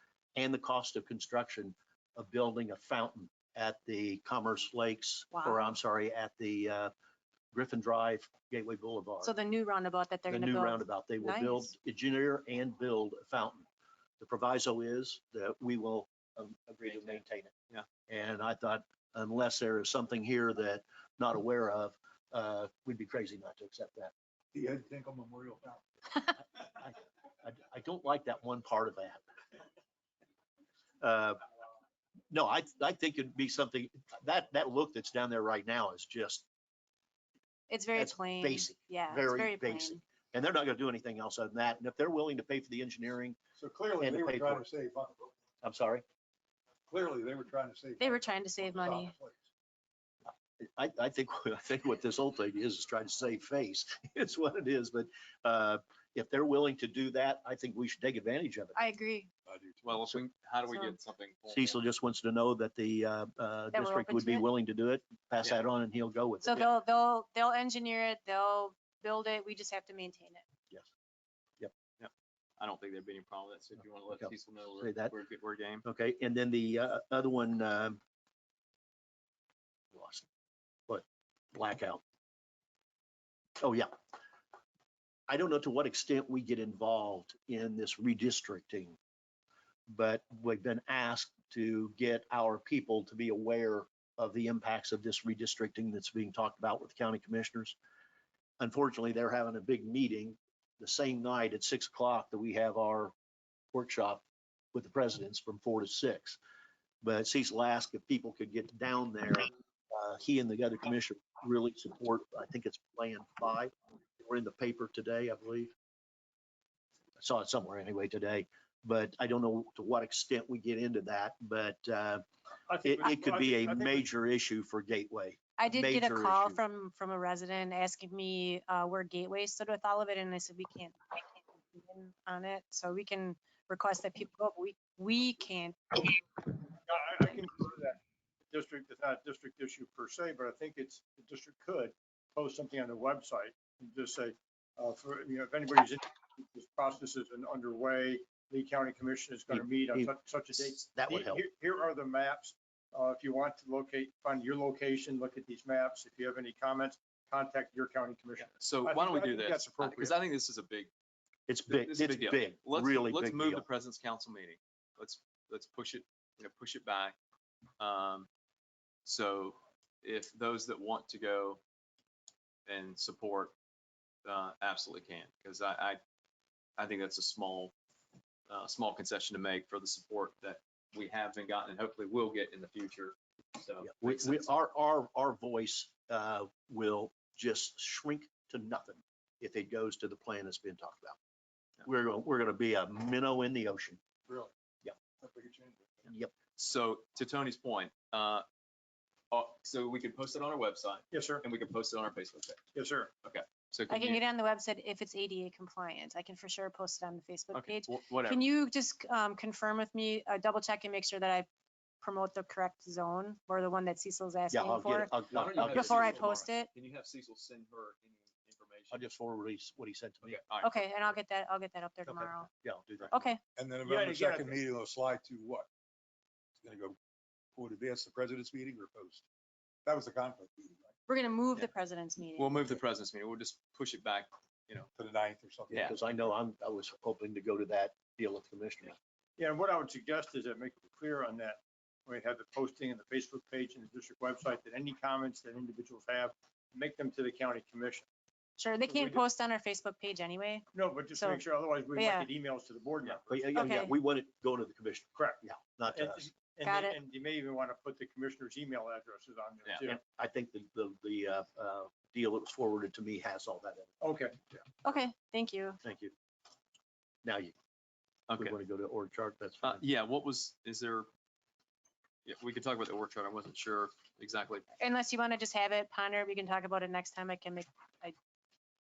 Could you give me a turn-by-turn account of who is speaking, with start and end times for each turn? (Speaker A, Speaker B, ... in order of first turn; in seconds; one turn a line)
Speaker A: 0.3-6.9
Speaker B: 5.3-5.7
Speaker A: 7.5-9.3
Speaker B: 9.2-11.7
Speaker A: 10.3-13.6
Speaker A: 14.2-17.5
Speaker C: 16.9-17.2
Speaker A: 18.1-24.1
Speaker D: 24.5-25.8
Speaker A: 26.8-29.2
Speaker A: 31.0-31.4
Speaker A: 32.3-36.5
Speaker B: 37.7-40.0
Speaker A: 38.0-43.4
Speaker D: 43.6-45.3
Speaker A: 44.0-44.6
Speaker A: 45.6-46.0
Speaker D: 46.9-49.4
Speaker B: 48.0-49.1
Speaker A: 50.6-58.8
Speaker B: 58.8-59.3
Speaker D: 59.5-60.2
Speaker C: 59.8-61.8
Speaker B: 60.7-61.0
Speaker A: 61.5-66.7
Speaker B: 63.7-64.5
Speaker B: 66.4-70.4
Speaker C: 72.0-75.8
Speaker A: 74.2-75.1
Speaker A: 75.8-78.0
Speaker A: 79.9-80.2
Speaker A: 80.9-82.0
Speaker A: 83.6-83.9
Speaker A: 85.3-89.0
Speaker A: 89.9-97.8
Speaker A: 98.6-103.1
Speaker A: 103.7-104.2
Speaker A: 104.7-106.4
Speaker A: 107.0-115.7
Speaker A: 117.2-122.2
Speaker E: 122.7-124.1
Speaker A: 122.8-126.6
Speaker B: 125.6-136.7
Speaker E: 136.8-138.0
Speaker E: 138.5-160.2
Speaker A: 149.5-151.4
Speaker C: 158.4-160.9
Speaker A: 161.5-163.6
Speaker C: 161.7-167.2
Speaker C: 167.8-168.3
Speaker C: 169.0-171.6
Speaker C: 172.7-173.5
Speaker C: 174.2-176.0
Speaker C: 176.8-177.7
Speaker C: 178.5-184.5
Speaker A: 183.8-191.2
Speaker A: 191.8-194.0
Speaker D: 195.2-196.1
Speaker A: 196.1-196.3
Speaker C: 196.6-198.4
Speaker C: 199.3-202.6
Speaker E: 201.1-201.4
Speaker E: 202.7-203.1
Speaker C: 203.2-204.2
Speaker B: 203.9-211.5
Speaker C: 207.5-208.4
Speaker B: 212.0-216.7
Speaker A: 214.5-216.4
Speaker C: 215.3-219.0
Speaker A: 218.9-220.4
Speaker C: 220.2-220.8
Speaker B: 220.6-222.5
Speaker A: 222.1-223.3
Speaker B: 223.1-223.4
Speaker D: 223.6-225.7
Speaker E: 223.8-224.6
Speaker D: 226.6-227.0
Speaker D: 227.5-229.2
Speaker D: 229.8-230.9
Speaker B: 231.1-232.8
Speaker C: 232.3-234.9
Speaker D: 235.0-236.0
Speaker A: 235.7-239.0
Speaker E: 239.4-248.1
Speaker B: 248.6-251.4
Speaker E: 248.8-249.2
Speaker E: 250.7-253.8
Speaker B: 252.0-252.3
Speaker A: 253.3-256.2
Speaker B: 253.6-253.9
Speaker E: 255.2-255.4
Speaker E: 255.9-260.0
Speaker B: 256.6-256.9
Speaker A: 259.9-263.9
Speaker E: 264.0-264.4
Speaker B: 264.8-265.8
Speaker A: 265.8-266.1
Speaker A: 267.2-267.5
Speaker C: 268.3-268.5
Speaker A: 268.4-269.8
Speaker C: 269.6-271.1
Speaker C: 272.2-274.6
Speaker B: 274.8-278.1